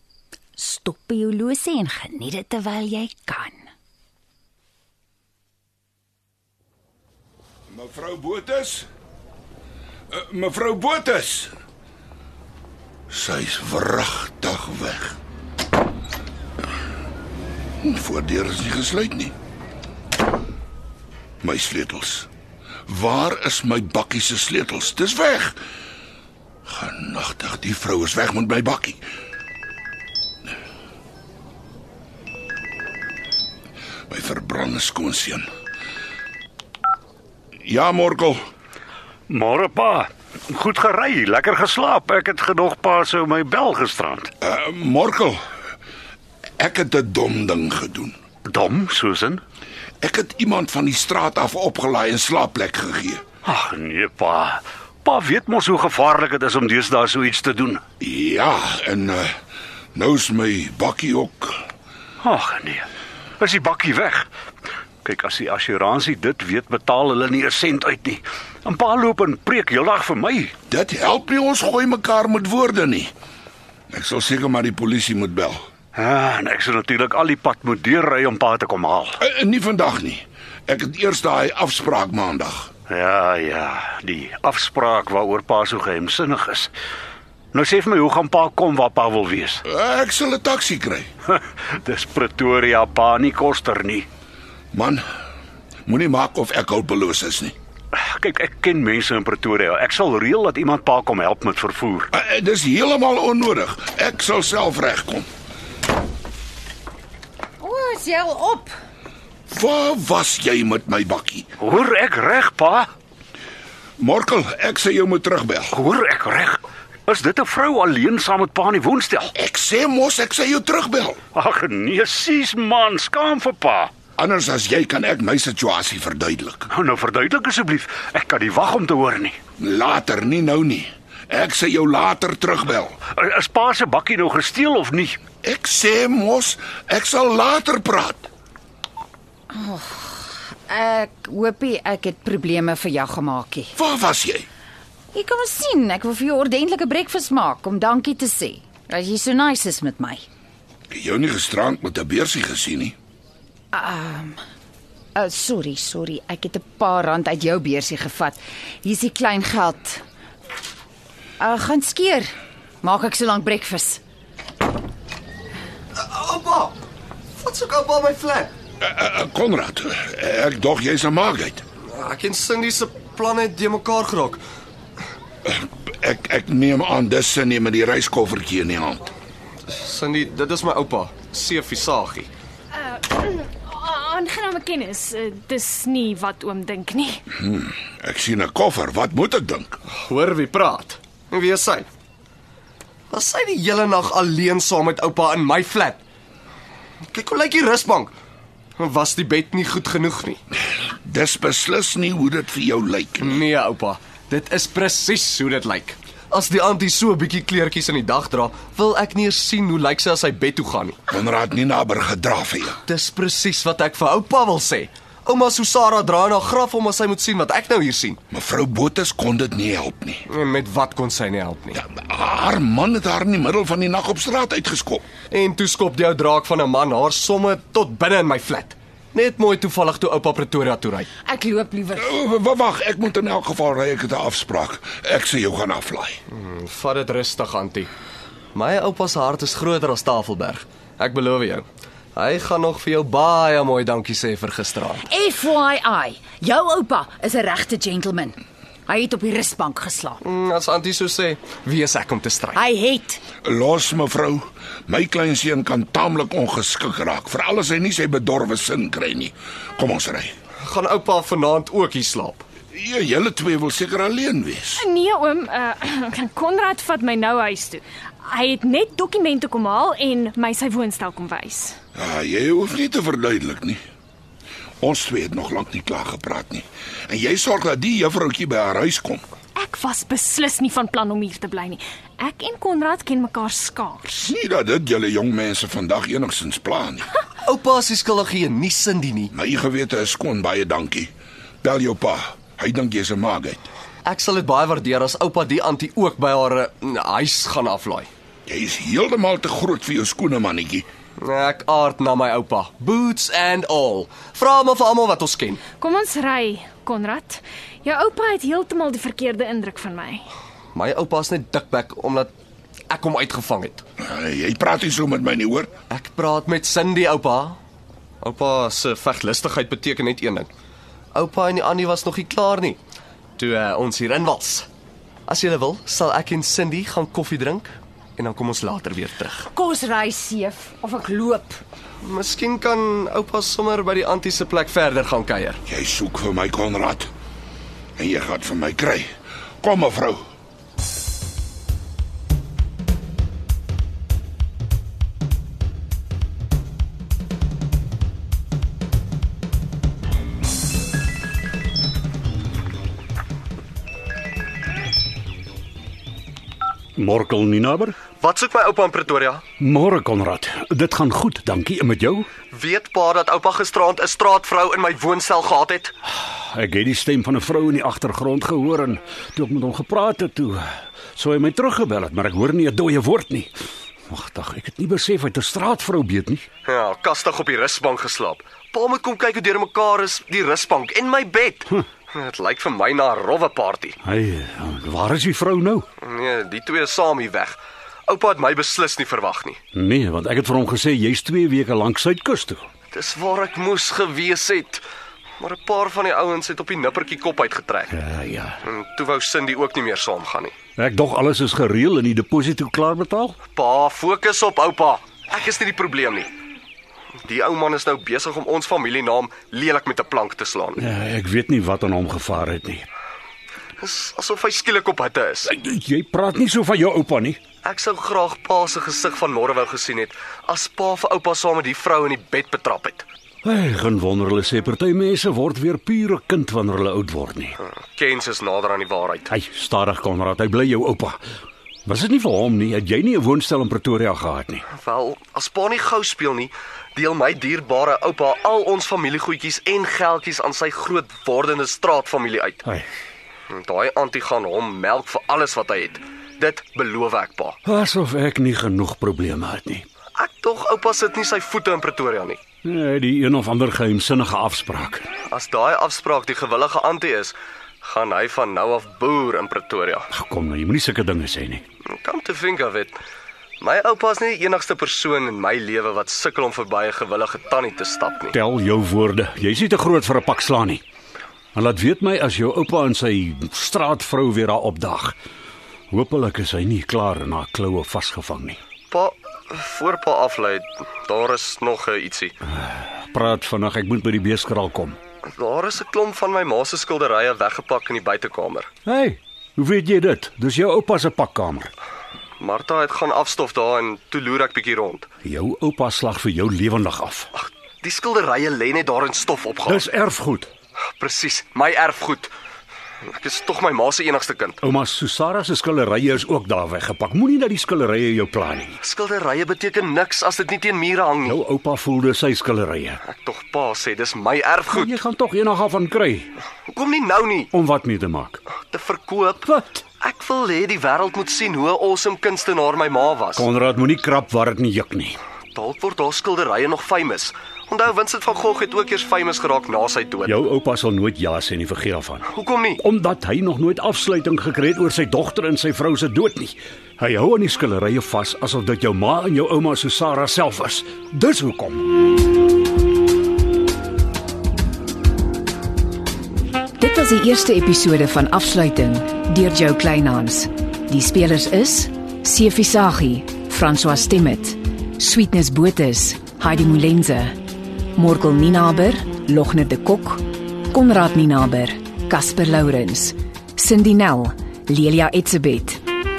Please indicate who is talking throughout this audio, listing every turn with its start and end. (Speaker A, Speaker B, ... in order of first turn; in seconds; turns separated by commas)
Speaker A: 0.6-3.7, Speaker B: 7.7-8.9, Speaker B: 10.1-11.5, Speaker B: 13.1-15.2, Speaker B: 17.8-19.3, Speaker B: 21.4-22.3, Speaker B: 22.9-25.6, Speaker B: 26.7-29.0, Speaker B: 34.1-35.5, Speaker B: 37.6-38.4, Speaker C: 39.3-44.3, Speaker B: 44.4-45.4, Speaker B: 46.6-48.1, Speaker C: 48.5-49.4, Speaker B: 50.0-53.2, Speaker C: 53.5-57.8, Speaker B: 58.0-59.3, Speaker B: 60.0-61.6, Speaker C: 62.2-62.9, Speaker C: 63.4-64.3, Speaker C: 65.0-70.5, Speaker B: 70.7-73.1, Speaker B: 73.9-75.6, Speaker C: 76.0-79.2, Speaker B: 79.2-82.7, Speaker C: 82.9-86.7, Speaker C: 87.5-89.6, Speaker B: 89.7-91.1, Speaker C: 91.3-94.1, Speaker B: 94.7-95.0, Speaker B: 95.9-97.5, Speaker C: 97.9-102.1, Speaker B: 102.1-105.3, Speaker A: 107.6-108.7, Speaker B: 109.5-111.5, Speaker C: 111.6-112.9, Speaker B: 114.0-115.8, Speaker C: 115.7-119.3, Speaker B: 119.4-121.2, Speaker C: 121.3-123.9, Speaker B: 124.2-126.7, Speaker C: 126.7-129.4, Speaker B: 129.6-133.0, Speaker C: 133.1-135.2, Speaker B: 135.4-138.3, Speaker A: 139.5-143.7, Speaker B: 143.8-144.5, Speaker A: 145.1-150.2, Speaker B: 150.9-152.9, Speaker A: 153.7-154.4, Speaker A: 155.2-160.0, Speaker A: 161.4-164.0, Speaker D: 166.0-166.8, Speaker D: 167.4-168.5, Speaker B: 168.8-171.6, Speaker D: 171.9-174.4, Speaker B: 175.4-179.0, Speaker D: 179.7-182.3, Speaker E: 182.8-187.2, Speaker B: 187.4-189.8, Speaker D: 189.9-191.9, Speaker D: 193.1-196.0, Speaker D: 197.1-198.1, Speaker D: 198.8-200.4, Speaker B: 201.0-203.4, Speaker D: 203.2-211.0, Speaker B: 211.1-212.8, Speaker D: 212.9-218.2, Speaker B: 218.3-220.2, Speaker D: 220.3-221.8, Speaker B: 221.8-225.1, Speaker D: 225.3-231.1, Speaker A: 231.3-232.2, Speaker B: 232.0-236.2, Speaker D: 236.3-237.9, Speaker D: 238.5-245.1, Speaker A: 245.0-250.2, Speaker D: 250.2-252.6, Speaker A: 252.6-253.2, Speaker B: 253.4-260.3, Speaker D: 260.6-262.5, Speaker B: 262.7-264.9, Speaker E: 264.8-271.8, Speaker B: 271.9-273.8, Speaker B: 274.8-279.2, Speaker E: 279.6-284.3, Speaker B: 284.2-287.1, Speaker D: 287.4-289.3, Speaker B: 289.3-291.1, Speaker B: 291.6-293.7, Speaker D: 294.1-298.1, Speaker B: 298.5-300.9, Speaker D: 301.2-305.7, Speaker E: 305.8-310.3, Speaker D: 310.7-312.3, Speaker D: 312.9-313.8, Speaker B: 314.0-315.7, Speaker D: 315.9-317.6, Speaker D: 318.2-320.5, Speaker D: 321.1-322.8, Speaker D: 323.4-324.7, Speaker D: 325.3-329.5, Speaker A: 329.5-331.6, Speaker D: 332.0-335.6, Speaker B: 335.7-337.1, Speaker B: 338.0-339.1, Speaker B: 339.6-340.2, Speaker C: 357.0-358.0, Speaker D: 358.2-359.5, Speaker C: 359.6-362.3, Speaker D: 362.5-365.9, Speaker C: 366.2-370.6, Speaker C: 371.1-373.5, Speaker C: 374.1-376.5, Speaker D: 376.7-384.0, Speaker C: 384.0-385.9, Speaker D: 386.0-389.6, Speaker C: 389.8-392.6, Speaker D: 392.9-394.8, Speaker D: 395.4-397.9, Speaker C: 397.9-398.6, Speaker D: 398.6-400.6, Speaker C: 400.8-403.4, Speaker D: 403.6-406.3, Speaker D: 407.2-410.8, Speaker C: 410.8-412.9, Speaker D: 413.8-415.5, Speaker C: 415.4-417.4, Speaker D: 417.6-423.1, Speaker C: 423.4-427.6, Speaker D: 427.6-429.3, Speaker C: 429.3-431.2, Speaker C: 431.9-434.6, Speaker D: 434.7-442.6, Speaker D: 443.5-447.6, Speaker C: 447.7-449.9, Speaker D: 450.2-452.4, Speaker C: 452.6-455.1, Speaker D: 455.3-460.1, Speaker C: 460.1-461.6, Speaker D: 461.9-463.0, Speaker D: 463.6-468.4, Speaker C: 468.3-470.8, Speaker C: 471.6-475.2, Speaker C: 475.9-478.6, Speaker D: 478.9-482.3, Speaker C: 482.5-485.0, Speaker D: 485.3-488.7, Speaker C: 488.9-491.7, Speaker D: 492.4-495.1, Speaker C: 495.2-497.3, Speaker D: 497.3-499.9, Speaker C: 499.7-500.5, Speaker D: 501.0-502.3, Speaker D: 503.1-504.6, Speaker C: 504.6-508.8, Speaker D: 508.8-511.4, Speaker C: 511.2-513.0, Speaker D: 513.0-515.0, Speaker C: 514.7-516.3, Speaker D: 516.7-517.5, Speaker C: 517.5-518.4, Speaker D: 518.6-519.5, Speaker C: 519.5-519.8, Speaker D: 520.0-523.5, Speaker C: 523.4-525.2, Speaker D: 525.5-530.4, Speaker C: 530.2-541.9, Speaker D: 532.3-532.8, Speaker F: 546.8-557.3, Speaker F: 558.0-565.8